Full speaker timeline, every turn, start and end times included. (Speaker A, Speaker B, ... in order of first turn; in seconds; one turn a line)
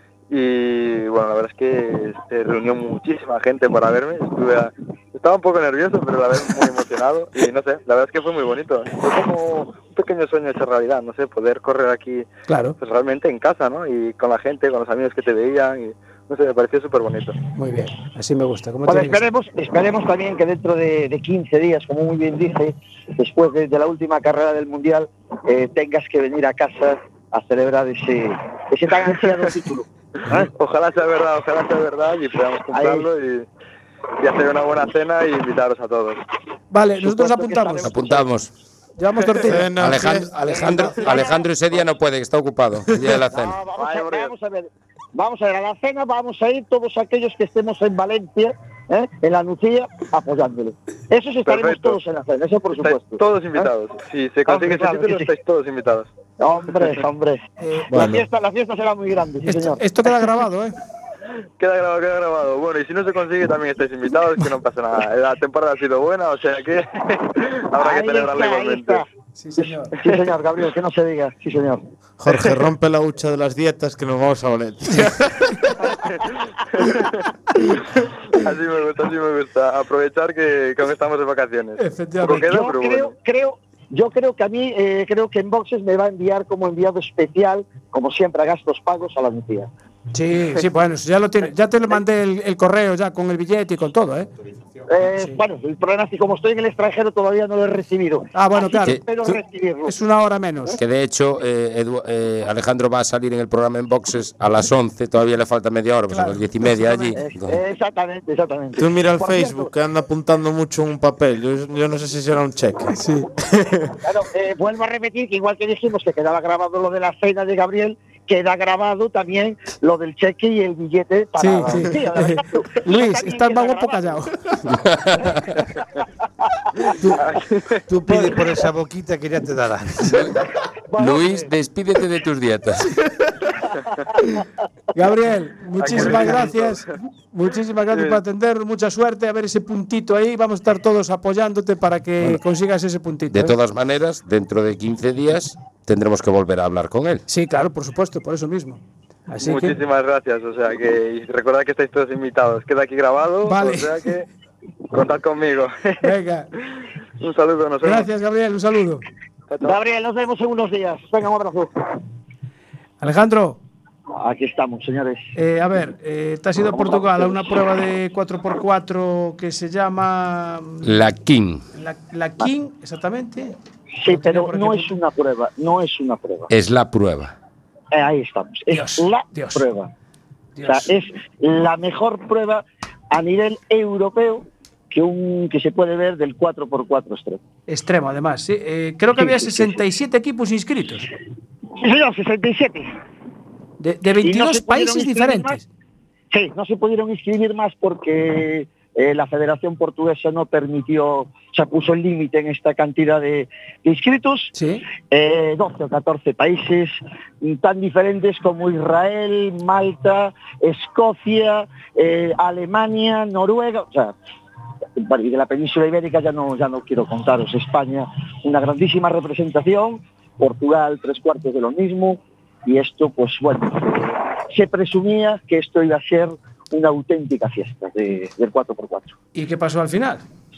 Speaker A: 0.3-12.3
Speaker B: 12.5-12.8
Speaker A: 12.8-17.4
Speaker B: 17.5-19.2
Speaker C: 18.9-30.4
Speaker A: 30.4-33.5
Speaker C: 32.7-33.1
Speaker A: 34.2-36.2
Speaker B: 36.7-37.9
Speaker C: 37.0-38.3
Speaker D: 37.8-38.5
Speaker B: 39.0-39.7
Speaker E: 39.4-40.9
Speaker D: 39.8-43.6
Speaker C: 40.5-41.8
Speaker C: 43.3-53.7
Speaker A: 43.7-44.3
Speaker A: 51.5-52.0
Speaker A: 52.8-56.1
Speaker C: 54.5-55.3
Speaker C: 56.4-57.4
Speaker E: 57.9-58.2
Speaker C: 57.9-59.8
Speaker B: 59.4-60.7
Speaker A: 61.6-69.0
Speaker C: 67.8-69.0
Speaker B: 69.4-69.9
Speaker C: 69.6-71.8
Speaker E: 72.2-75.7
Speaker A: 76.0-77.2
Speaker A: 78.3-83.1
Speaker B: 81.8-82.5
Speaker C: 82.3-89.7
Speaker B: 90.1-94.3
Speaker C: 94.9-100.0
Speaker B: 98.3-100.8
Speaker D: 100.8-107.6
Speaker B: 106.1-107.1
Speaker C: 107.2-109.7
Speaker E: 108.8-114.0
Speaker B: 113.0-113.3
Speaker C: 114.0-124.2
Speaker B: 121.4-124.4
Speaker D: 124.7-125.5
Speaker B: 127.0-127.3
Speaker A: 127.2-127.8
Speaker F: 127.9-130.3
Speaker B: 128.1-128.3
Speaker C: 130.9-131.5
Speaker D: 131.0-132.9
Speaker B: 134.9-143.5
Speaker A: 135.8-136.8
Speaker A: 137.9-138.2
Speaker D: 143.3-147.2
Speaker B: 147.3-149.8
Speaker A: 149.4-154.3
Speaker B: 153.4-153.9
Speaker A: 154.9-156.1
Speaker B: 156.0-156.5
Speaker A: 157.2-158.1
Speaker B: 157.8-159.0
Speaker A: 159.5-159.8
Speaker C: 159.6-161.7
Speaker B: 163.0-163.6
Speaker C: 164.2-165.2
Speaker B: 165.3-171.0
Speaker C: 166.6-167.5
Speaker D: 170.8-171.6
Speaker B: 171.7-174.9
Speaker C: 174.0-176.5
Speaker D: 176.5-177.3
Speaker C: 177.9-179.9
Speaker B: 178.7-179.7
Speaker B: 180.6-180.9
Speaker C: 180.7-187.4
Speaker B: 187.7-191.1
Speaker C: 189.2-189.8
Speaker C: 191.8-192.9
Speaker B: 193.8-195.6
Speaker C: 194.2-195.6
Speaker C: 196.3-204.5
Speaker B: 204.5-204.8
Speaker C: 205.1-214.1
Speaker C: 215.0-229.1
Speaker B: 229.3-230.2